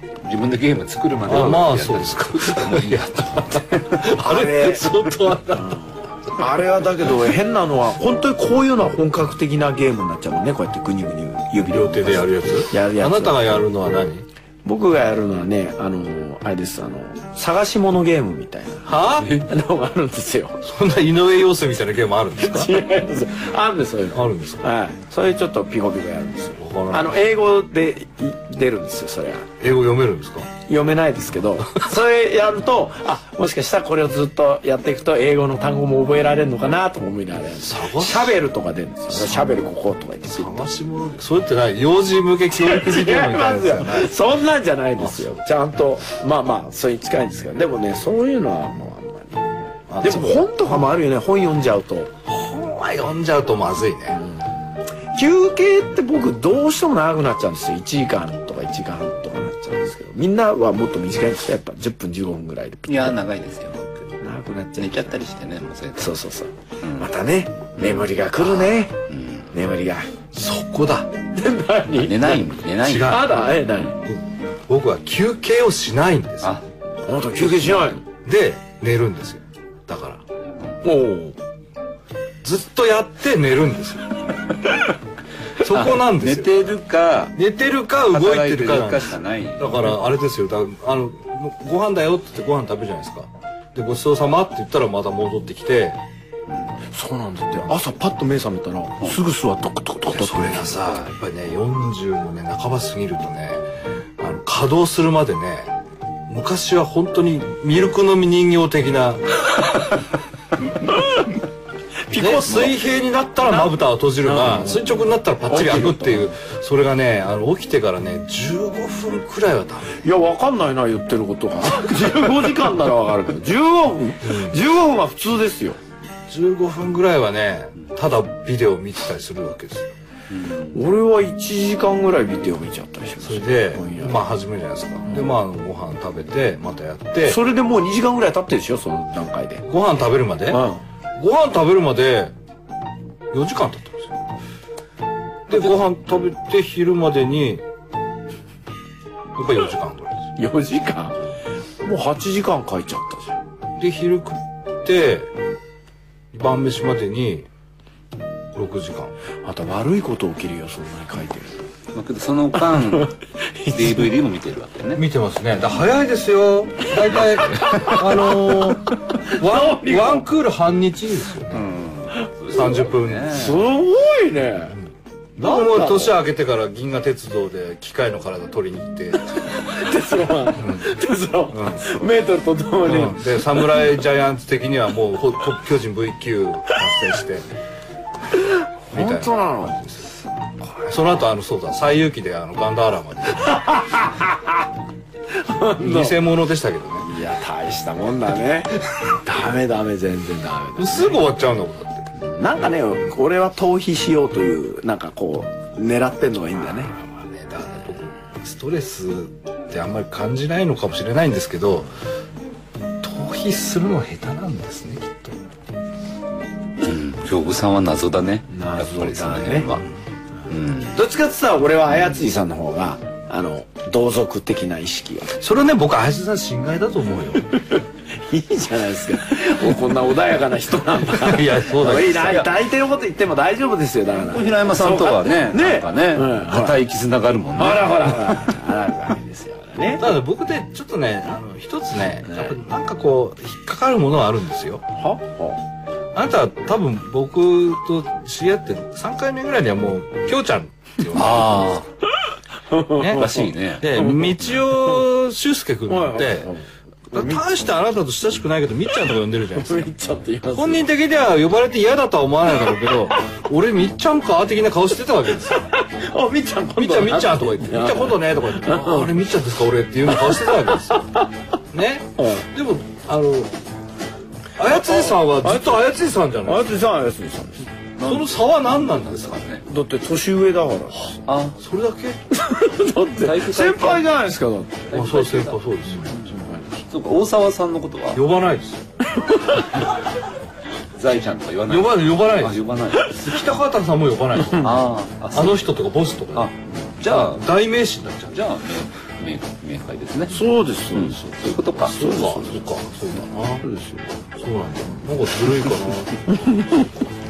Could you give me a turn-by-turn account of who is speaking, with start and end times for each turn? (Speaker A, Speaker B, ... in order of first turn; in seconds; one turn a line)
Speaker A: 0.2-4.0
Speaker B: 1.2-5.8
Speaker C: 4.1-4.9
Speaker C: 5.5-13.6
Speaker B: 11.6-14.2
Speaker C: 14.6-20.6
Speaker B: 18.9-19.4
Speaker B: 20.6-22.8
Speaker C: 22.4-29.5
Speaker B: 24.1-24.6
Speaker B: 26.6-27.1
Speaker B: 29.6-30.5
Speaker C: 30.6-40.5
Speaker B: 37.6-38.4
Speaker B: 39.1-39.5
Speaker B: 40.2-44.2
Speaker C: 42.5-52.1
Speaker B: 45.0-45.4
Speaker B: 49.9-50.8
Speaker B: 52.3-54.2
Speaker C: 54.1-54.4
Speaker C: 55.1-63.2
Speaker A: 62.9-64.1
Speaker C: 64.2-65.2
Speaker A: 64.7-66.2
Speaker C: 66.0-69.0
Speaker A: 66.8-67.1
Speaker A: 67.8-69.5
Speaker C: 69.5-70.1
Speaker B: 70.3-71.1
Speaker C: 71.3-72.5
Speaker A: 71.9-73.3
Speaker B: 72.8-73.5
Speaker C: 73.1-74.0
Speaker B: 74.0-76.6
Speaker C: 77.0-78.0
Speaker A: 77.3-78.0
Speaker B: 78.2-80.2
Speaker C: 80.8-81.4
Speaker B: 82.4-84.1
Speaker B: 85.6-86.7
Speaker A: 85.7-87.3
Speaker B: 87.3-96.0
Speaker A: 88.1-89.9
Speaker C: 96.9-100.8
Speaker B: 100.1-103.7
Speaker B: 104.2-105.7
Speaker B: 106.3-109.8
Speaker C: 110.9-111.2
Speaker C: 112.1-112.8
Speaker B: 112.1-120.0
Speaker C: 114.2-116.3
Speaker C: 120.0-125.8
Speaker B: 124.2-124.5
Speaker B: 126.3-129.9
Speaker A: 130.3-130.8
Speaker C: 130.7-134.2
Speaker B: 133.2-137.4
Speaker C: 137.2-139.6
Speaker B: 139.7-140.6
Speaker C: 140.5-140.8
Speaker B: 141.2-142.3
Speaker B: 143.3-144.2
Speaker B: 145.5-147.6
Speaker B: 149.3-150.3
Speaker C: 150.4-151.2
Speaker C: 151.8-153.4
Speaker B: 153.8-155.3
Speaker B: 156.3-157.5
Speaker B: 158.5-159.1
Speaker C: 159.4-161.7
Speaker A: 161.9-163.1
Speaker C: 162.7-164.1
Speaker A: 163.7-165.0
Speaker B: 164.9-171.7
Speaker C: 167.5-170.3
Speaker A: 171.5-173.6
Speaker B: 172.5-173.5
Speaker C: 173.3-174.7
Speaker B: 174.7-179.3
Speaker C: 175.4-176.2
Speaker C: 179.4-183.9
Speaker B: 180.6-182.0
Speaker B: 182.8-187.4
Speaker C: 188.4-189.8
Speaker B: 188.9-190.1
Speaker B: 190.9-193.7
Speaker C: 193.4-194.6
Speaker C: 195.4-196.2
Speaker B: 195.8-197.1
Speaker C: 197.0-201.3
Speaker B: 200.8-202.1
Speaker C: 202.2-206.9
Speaker B: 207.0-211.9
Speaker B: 213.0-215.3
Speaker A: 216.8-219.9
Speaker C: 218.5-219.7
Speaker A: 220.5-221.0
Speaker C: 220.9-225.4
Speaker B: 225.4-227.5
Speaker C: 227.5-236.8
Speaker B: 231.2-232.5
Speaker A: 234.1-238.4
Speaker C: 237.6-240.1
Speaker B: 240.0-244.8
Speaker C: 242.3-242.5
Speaker C: 244.9-245.6
Speaker B: 246.1-251.8
Speaker A: 251.1-251.8
Speaker C: 252.7-254.2
Speaker B: 253.0-256.5
Speaker A: 253.1-253.9
Speaker C: 255.9-257.4
Speaker B: 257.1-259.9
Speaker C: 259.5-260.9
Speaker B: 260.5-265.7
Speaker C: 265.5-269.1
Speaker B: 266.8-271.1
Speaker C: 270.2-271.3
Speaker B: 271.7-273.5
Speaker C: 272.2-272.4
Speaker B: 274.6-276.7
Speaker C: 274.7-275.9
Speaker C: 276.4-277.7
Speaker A: 278.0-279.6
Speaker B: 278.0-279.4
Speaker C: 279.6-281.2
Speaker A: 281.2-281.6
Speaker B: 281.6-282.4
Speaker C: 282.3-284.9
Speaker A: 283.2-284.1
Speaker B: 284.9-286.1
Speaker A: 284.9-285.6
Speaker C: 285.9-286.9
Speaker A: 286.9-288.2
Speaker B: 288.1-288.9
Speaker C: 289.2-289.7
Speaker A: 290.9-293.3
Speaker B: 291.7-296.5
Speaker A: 294.5-295.7
Speaker A: 296.3-297.4
Speaker B: 297.0-298.4
Speaker A: 298.3-302.0
Speaker C: 300.3-302.6
Speaker B: 301.9-303.6
Speaker C: 303.6-304.2
Speaker B: 304.4-306.2
Speaker C: 306.3-306.9